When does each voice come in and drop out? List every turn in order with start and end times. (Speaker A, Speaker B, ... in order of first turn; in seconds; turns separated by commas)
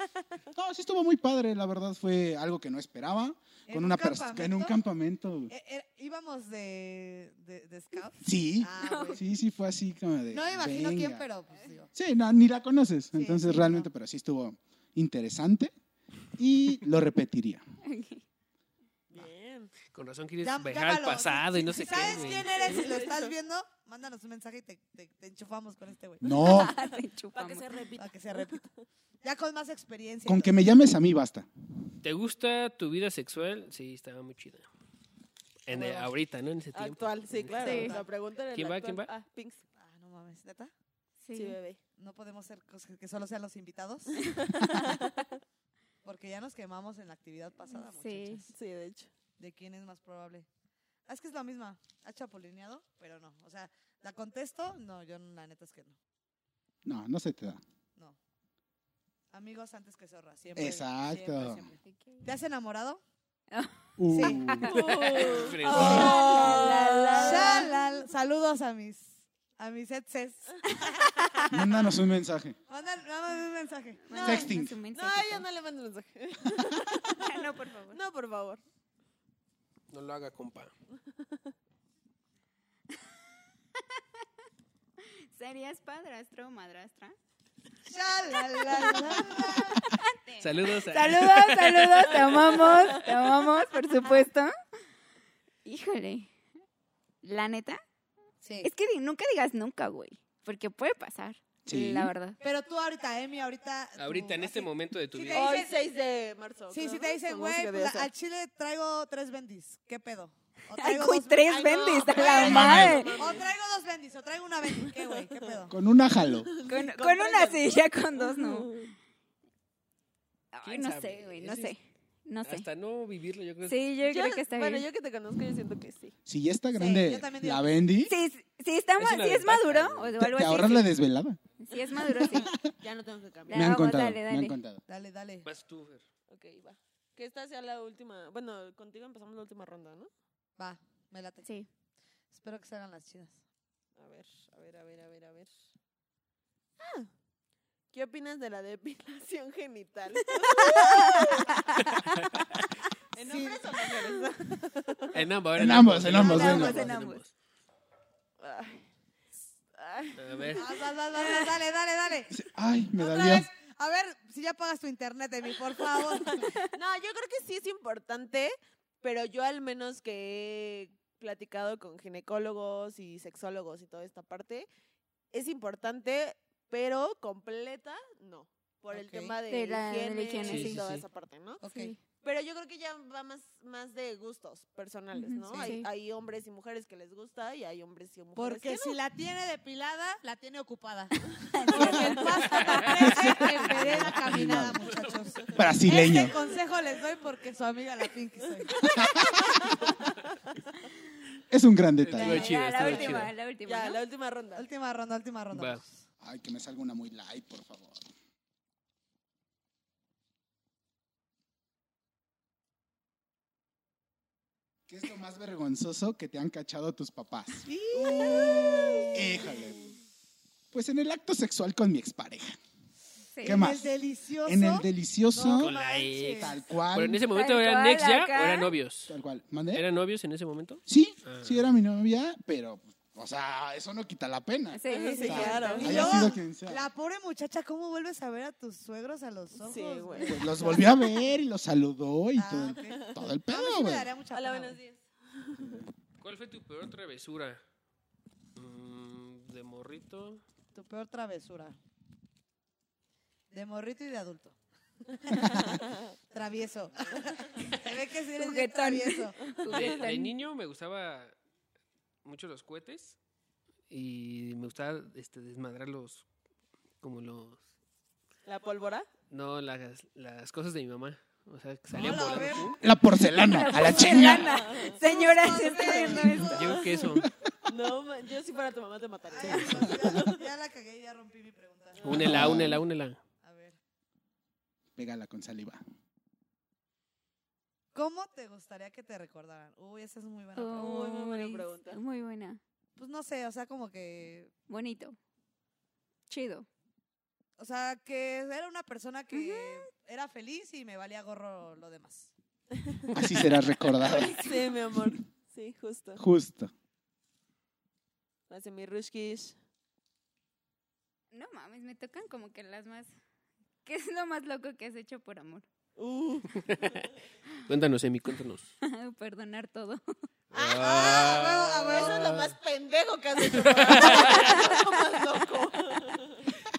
Speaker A: 0.5-5.5, Speaker B: 3.7-4.8, Speaker B: 5.5-9.2, Speaker A: 8.2-11.2, Speaker C: 8.8-9.2, Speaker B: 10.3-11.9, Speaker A: 11.9-15.7, Speaker B: 13.1-13.9, Speaker A: 16.4-17.6, Speaker C: 17.8-18.2, Speaker D: 19.1-19.7, Speaker E: 19.9-22.8, Speaker B: 20.4-26.6, Speaker D: 22.2-23.3, Speaker A: 26.2-26.8, Speaker C: 26.4-27.7, Speaker D: 26.7-28.8, Speaker B: 28.0-28.6, Speaker B: 29.2-30.6, Speaker A: 30.3-31.5, Speaker E: 32.0-34.6, Speaker E: 35.7-37.9, Speaker D: 35.7-36.1, Speaker D: 36.7-39.6, Speaker C: 37.6-38.0, Speaker B: 37.6-38.1, Speaker E: 38.5-39.1, Speaker B: 39.8-40.7, Speaker C: 41.2-41.6, Speaker D: 41.3-41.8, Speaker B: 42.0-44.2, Speaker D: 44.2-45.4, Speaker B: 46.0-48.5, Speaker C: 47.7-48.5, Speaker D: 48.5-49.1, Speaker B: 49.4-50.5, Speaker B: 51.1-56.0, Speaker A: 56.9-57.6, Speaker B: 59.3-63.0, Speaker A: 60.6-61.7, Speaker C: 63.5-67.7, Speaker A: 64.0-64.9, Speaker B: 64.1-64.5, Speaker D: 64.6-67.7, Speaker E: 65.0-66.2, Speaker A: 65.7-66.2, Speaker B: 65.7-66.7, Speaker B: 67.2-70.8, Speaker A: 71.5-72.6, Speaker B: 72.7-74.2, Speaker C: 74.1-75.5, Speaker D: 74.1-78.6, Speaker A: 74.2-74.8, Speaker C: 77.1-78.0, Speaker E: 79.9-80.7, Speaker D: 81.1-81.5, Speaker C: 85.3-87.2, Speaker B: 87.9-89.8, Speaker C: 88.6-94.5, Speaker E: 90.4-92.7, Speaker D: 92.7-93.0, Speaker C: 95.7-96.3, Speaker C: 97.2-97.8, Speaker B: 98.4-98.7, Speaker C: 98.6-102.4, Speaker A: 101.7-102.1, Speaker B: 102.4-105.8, Speaker E: 104.0-105.6, Speaker D: 105.3-108.1, Speaker B: 106.7-111.8, Speaker C: 110.8-113.2, Speaker D: 111.5-113.5, Speaker A: 112.3-113.1, Speaker B: 113.2-115.8, Speaker D: 114.9-115.5, Speaker A: 115.7-116.5, Speaker D: 116.2-118.9, Speaker C: 116.7-118.8, Speaker C: 120.5-122.7, Speaker E: 120.6-121.7, Speaker E: 122.4-123.8, Speaker C: 123.7-124.9, Speaker D: 124.0-126.2, Speaker A: 126.3-128.1, Speaker B: 126.8-127.7, Speaker C: 128.1-130.9, Speaker E: 129.0-130.1, Speaker A: 130.2-131.4, Speaker C: 131.6-132.6, Speaker A: 132.1-132.7, Speaker D: 132.3-133.8, Speaker C: 133.5-134.6, Speaker A: 133.5-134.8, Speaker B: 134.9-135.5, Speaker E: 135.4-136.0, Speaker D: 136.3-140.1, Speaker B: 140.6-141.5, Speaker C: 141.4-141.7, Speaker B: 142.3-143.4, Speaker D: 144.0-145.5, Speaker D: 146.8-147.1, Speaker D: 147.9-151.7, Speaker C: 150.4-151.9, Speaker E: 152.1-152.6, Speaker D: 153.1-155.2, Speaker B: 153.2-153.7, Speaker E: 155.1-157.3, Speaker A: 155.6-156.9, Speaker C: 156.1-157.2, Speaker D: 158.4-158.9, Speaker D: 159.7-161.3, Speaker E: 160.2-160.6, Speaker B: 160.5-162.4, Speaker A: 162.3-163.5, Speaker B: 162.9-166.4, Speaker D: 166.7-174.7, Speaker D: 175.3-181.6, Speaker B: 178.9-179.4, Speaker C: 179.5-181.0, Speaker E: 180.4-180.8, Speaker B: 181.6-181.9, Speaker C: 181.7-182.0, Speaker D: 182.2-189.0, Speaker C: 185.1-185.9, Speaker B: 188.4-198.8, Speaker C: 191.5-192.9, Speaker A: 192.9-194.8, Speaker A: 195.6-196.3, Speaker A: 198.9-199.5, Speaker D: 199.4-199.9, Speaker A: 201.5-202.5, Speaker E: 202.0-203.3, Speaker D: 202.1-203.1, Speaker C: 202.3-204.0, Speaker B: 202.3-203.2, Speaker D: 203.7-204.7, Speaker B: 204.6-206.0, Speaker E: 205.5-205.8, Speaker A: 206.2-208.1, Speaker A: 214.9-217.7, Speaker B: 217.7-219.8, Speaker D: 218.0-219.7, Speaker A: 219.1-219.8, Speaker A: 220.7-222.6, Speaker C: 223.3-223.6, Speaker A: 223.4-223.9, Speaker B: 223.4-226.6, Speaker A: 224.4-225.8, Speaker E: 225.5-229.2, Speaker A: 226.4-227.2, Speaker C: 227.3-228.7, Speaker A: 229.1-229.8, Speaker E: 229.7-231.7, Speaker A: 230.9-236.8, Speaker C: 234.7-236.1, Speaker B: 234.9-241.1, Speaker D: 234.9-236.2, Speaker D: 239.6-240.5, Speaker A: 240.2-244.1, Speaker B: 242.4-244.8, Speaker D: 244.3-245.8, Speaker A: 245.6-245.9, Speaker E: 246.2-247.6, Speaker E: 248.6-250.4, Speaker B: 250.7-251.8, Speaker B: 253.5-254.6, Speaker B: 255.1-259.5, Speaker C: 257.7-260.3, Speaker E: 259.7-261.3, Speaker D: 259.7-260.0, Speaker E: 262.2-263.2, Speaker E: 263.9-266.3, Speaker E: 267.0-267.6, Speaker D: 268.5-269.1, Speaker E: 269.3-272.8, Speaker B: 271.9-272.9, Speaker A: 272.8-274.6, Speaker C: 273.4-276.9, Speaker D: 273.9-275.3, Speaker B: 275.0-276.7, Speaker D: 275.9-276.3, Speaker E: 276.5-277.3, Speaker D: 277.7-280.5, Speaker B: 279.3-282.5, Speaker A: 279.4-280.1, Speaker D: 282.0-282.7, Speaker E: 282.0-283.2, Speaker A: 282.2-282.8, Speaker B: 283.4-283.8, Speaker A: 285.0-285.8, Speaker B: 287.9-291.1, Speaker C: 290.6-292.6, Speaker D: 290.8-292.0, Speaker B: 293.0-294.5, Speaker C: 294.7-295.2, Speaker C: 296.3-296.7, Speaker B: 297.6-302.3, Speaker C: 299.3-299.9, Speaker A: 303.1-304.4, Speaker C: 304.1-304.7, Speaker D: 304.3-306.2, Speaker A: 306.2-306.7, Speaker D: 308.5-309.6, Speaker C: 311.3-313.1, Speaker C: 313.8-315.6, Speaker D: 316.0-317.1, Speaker E: 316.6-317.0, Speaker E: 317.7-318.7, Speaker C: 318.8-320.0, Speaker E: 320.5-322.5, Speaker D: 320.5-326.5, Speaker B: 320.8-322.4, Speaker E: 323.4-324.8, Speaker C: 324.3-324.7